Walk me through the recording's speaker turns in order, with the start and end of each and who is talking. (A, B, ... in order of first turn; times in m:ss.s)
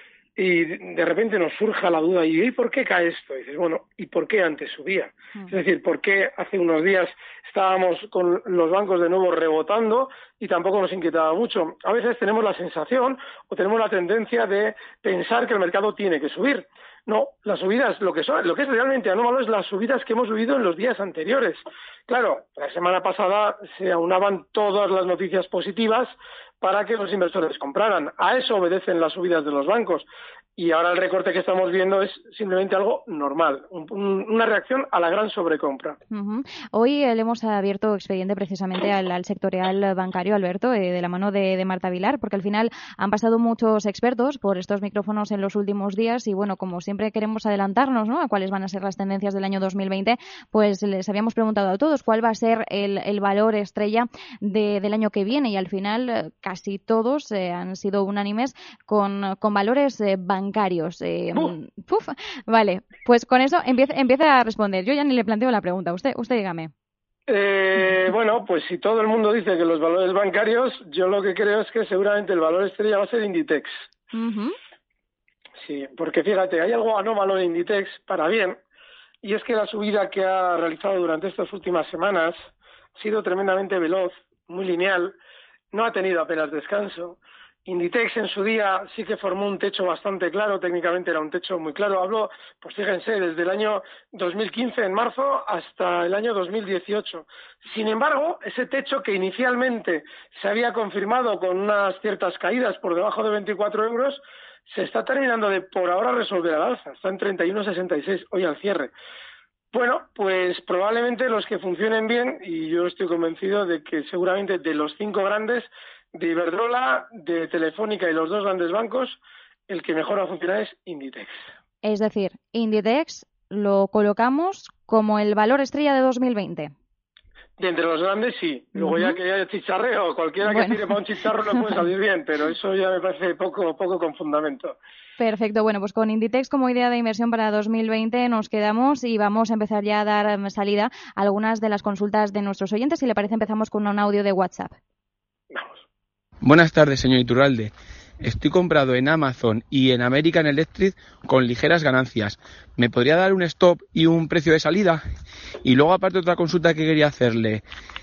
0:00.4-0:36.0 A
0:36.1-1:06.7 B
1:07.3-1:13.8 A
1:14.1-1:14.5 B
1:15.6-1:18.6 A
1:19.2-1:22.4 A
1:23.0-1:25.2 A
1:25.7-1:48.9 A
1:49.7-2:01.4 A
2:01.8-2:06.7 B
2:07.6-2:14.8 A
2:08.8-2:09.2 B
2:10.4-2:10.8 B
2:15.2-2:24.7 B
2:25.5-2:25.8 A
2:26.4-2:35.0 C
2:35.6-2:37.6 C